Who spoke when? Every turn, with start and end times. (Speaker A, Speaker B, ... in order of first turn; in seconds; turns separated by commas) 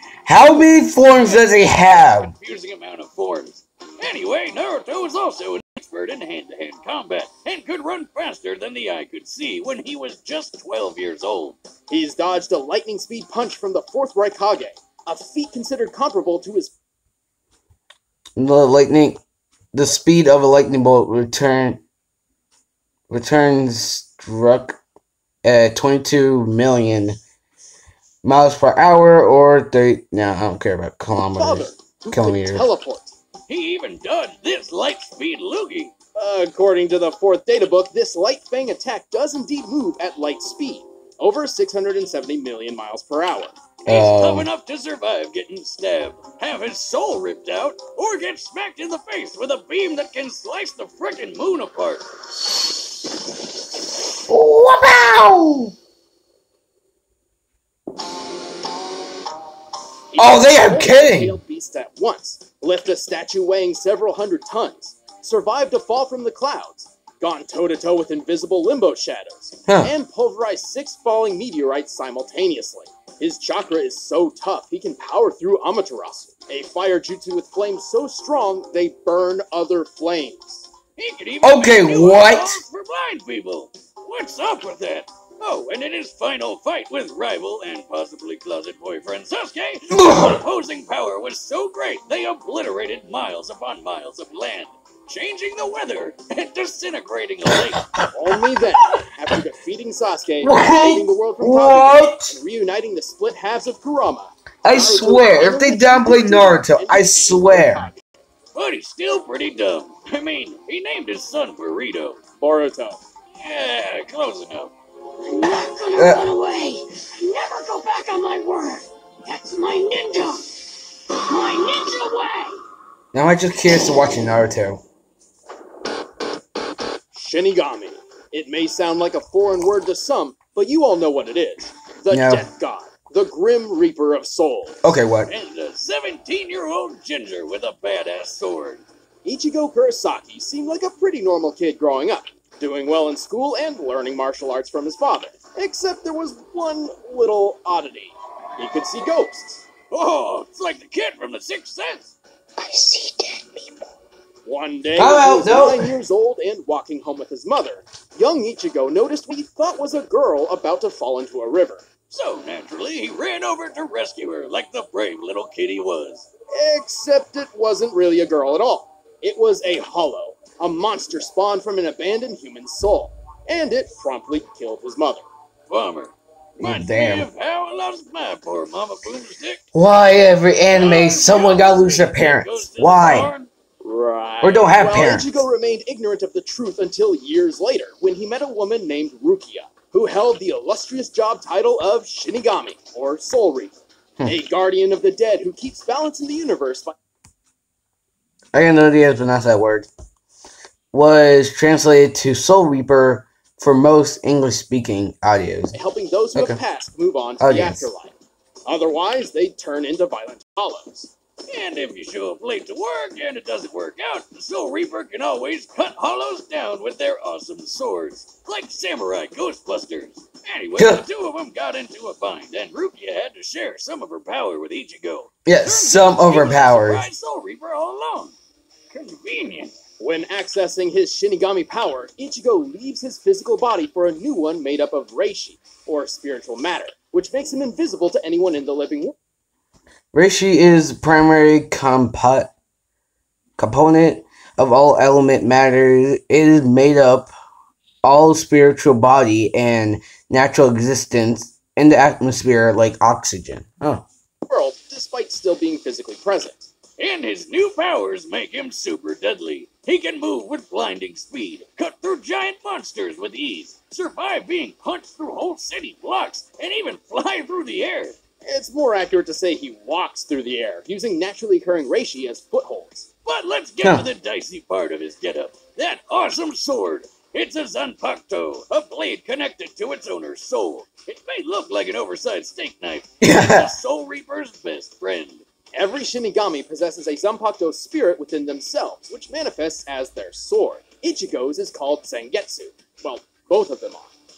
Speaker A: 0.2-2.3, Speaker B: 1.1-11.6, Speaker C: 11.9-16.7, Speaker A: 18.4-19.2, Speaker A: 19.7-21.8, Speaker A: 23.1-24.8, Speaker A: 25.4-27.2, Speaker A: 28.2-32.6, Speaker C: 31.4-33.1, Speaker B: 33.5-35.9, Speaker C: 36.1-43.5, Speaker A: 43.8-44.5, Speaker B: 43.9-52.0, Speaker A: 54.3-55.7, Speaker C: 60.1-80.7, Speaker A: 60.2-61.4, Speaker A: 69.7-69.9, Speaker B: 81.0-97.8, Speaker A: 81.4-82.6, Speaker A: 89.9-90.4, Speaker A: 97.5-98.1, Speaker C: 98.1-108.0, Speaker A: 100.4-102.3, Speaker A: 104.6-107.9, Speaker B: 108.5-112.2, Speaker C: 112.4-113.0, Speaker B: 113.4-114.7, Speaker D: 115.2-120.5, Speaker A: 115.9-116.3, Speaker D: 121.1-122.5, Speaker A: 123.1-124.8, Speaker C: 127.1-134.8, Speaker A: 132.1-132.4, Speaker A: 134.8-135.3, Speaker B: 135.3-138.8, Speaker C: 139.2-149.7, Speaker B: 149.9-152.1, Speaker D: 152.6-153.6, Speaker C: 154.4-161.8, Speaker A: 154.9-155.9, Speaker B: 162.1-166.3, Speaker C: 166.5-175.2, Speaker B: 175.7-179.6, Speaker A: 176.6-177.3, Speaker A: 179.7-183.3, Speaker B: 180.7-183.5, Speaker C: 183.8-196.9, Speaker A: 184.4-185.4, Speaker A: 198.5-199.9, Speaker A: 200.9-205.7, Speaker C: 205.7-208.1, Speaker A: 207.4-207.9, Speaker C: 208.7-211.1, Speaker B: 211.5-228.3, Speaker A: 220.8-221.0, Speaker A: 225.4-227.1, Speaker B: 228.9-229.7, Speaker C: 230.0-239.2, Speaker A: 240.1-242.5, Speaker A: 243.6-247.3, Speaker A: 248.0-254.1, Speaker C: 254.5-256.7, Speaker B: 257.0-268.1, Speaker C: 268.4-273.1, Speaker B: 273.2-285.4, Speaker A: 273.8-274.1, Speaker A: 283.2-283.7, Speaker C: 285.7-294.1